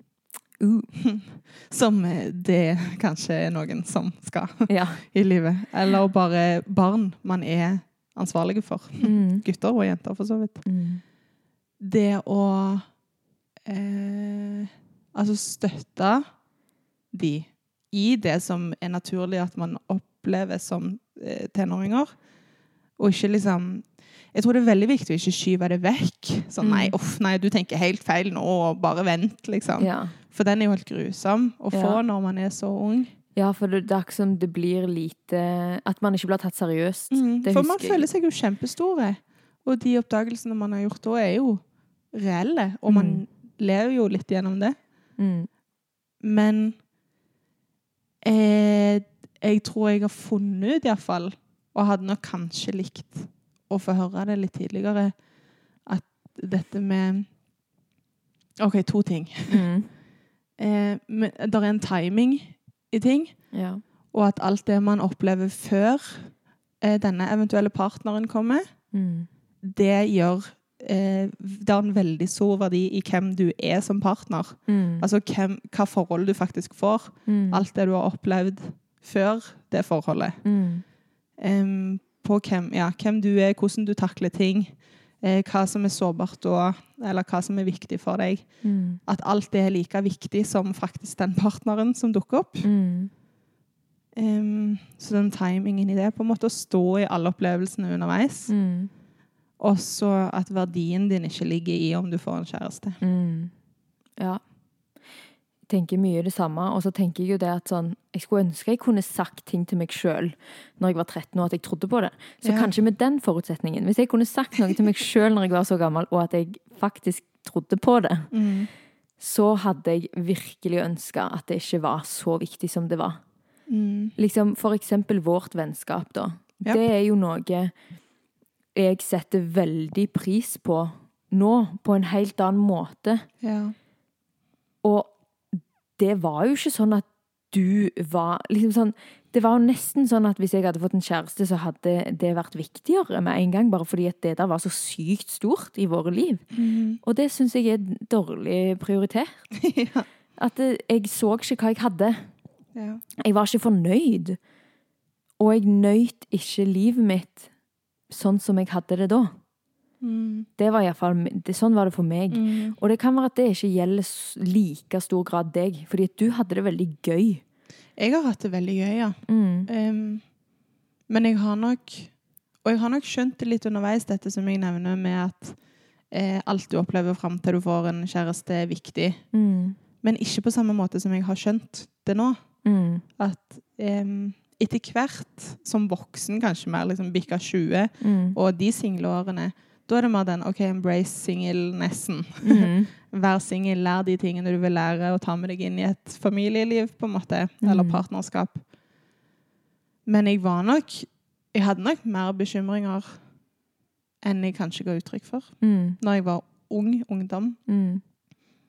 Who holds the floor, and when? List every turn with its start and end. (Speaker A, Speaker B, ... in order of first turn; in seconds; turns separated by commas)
Speaker A: 0.6-0.9, Speaker B: 0.9-10.6, Speaker A: 4.7-5.0, Speaker A: 9.0-9.4, Speaker A: 10.6-11.0, Speaker B: 11.8-12.8, Speaker B: 13.7-16.2, Speaker B: 17.1-22.1, Speaker B: 23.0-33.1, Speaker A: 26.6-26.9, Speaker A: 29.8-30.1, Speaker A: 31.7-32.0, Speaker A: 33.4-38.1, Speaker B: 37.1-41.6, Speaker B: 42.1-44.8, Speaker A: 42.9-43.2, Speaker A: 45.2-45.5, Speaker B: 46.2-46.8, Speaker B: 48.2-55.1, Speaker B: 55.9-57.3, Speaker B: 58.6-59.6, Speaker A: 59.5-59.9, Speaker B: 60.6-63.4, Speaker A: 63.5-63.8, Speaker B: 64.1-68.7, Speaker A: 68.9-69.3, Speaker B: 69.6-80.4, Speaker A: 74.7-75.0, Speaker A: 77.3-77.6, Speaker A: 80.4-80.8, Speaker B: 81.4-88.5, Speaker A: 88.6-89.0, Speaker B: 89.0-92.7, Speaker A: 92.6-93.1, Speaker B: 94.2-98.5, Speaker A: 98.5-98.9, Speaker B: 99.6-103.0, Speaker A: 103.0-103.5, Speaker A: 105.7-118.3, Speaker B: 112.4-112.7, Speaker B: 118.3-118.7, Speaker A: 119.2-123.2, Speaker B: 123.7-124.1, Speaker A: 124.2-127.7, Speaker A: 128.7-133.2, Speaker B: 133.4-133.7, Speaker A: 134.8-135.1, Speaker A: 136.0-146.4, Speaker B: 146.5-147.0, Speaker A: 147.0-149.4, Speaker B: 149.5-150.1, Speaker A: 150.4-152.2, Speaker B: 152.8-153.0, Speaker A: 153.2-154.4, Speaker A: 155.4-157.5, Speaker A: 158.1-159.3, Speaker B: 160.0-160.5, Speaker A: 160.6-167.4, Speaker B: 162.3-162.8, Speaker B: 168.0-170.2, Speaker A: 169.3-169.7, Speaker B: 171.1-172.1, Speaker B: 172.6-175.6, Speaker B: 176.1-179.2, Speaker A: 179.3-179.8, Speaker B: 180.0-182.4, Speaker A: 182.6-183.0, Speaker B: 183.2-198.6, Speaker A: 188.0-188.4, Speaker A: 192.4-192.9, Speaker A: 197.6-198.0, Speaker B: 200.1-203.2, Speaker B: 204.2-207.6, Speaker A: 205.6-206.0, Speaker A: 207.7-208.0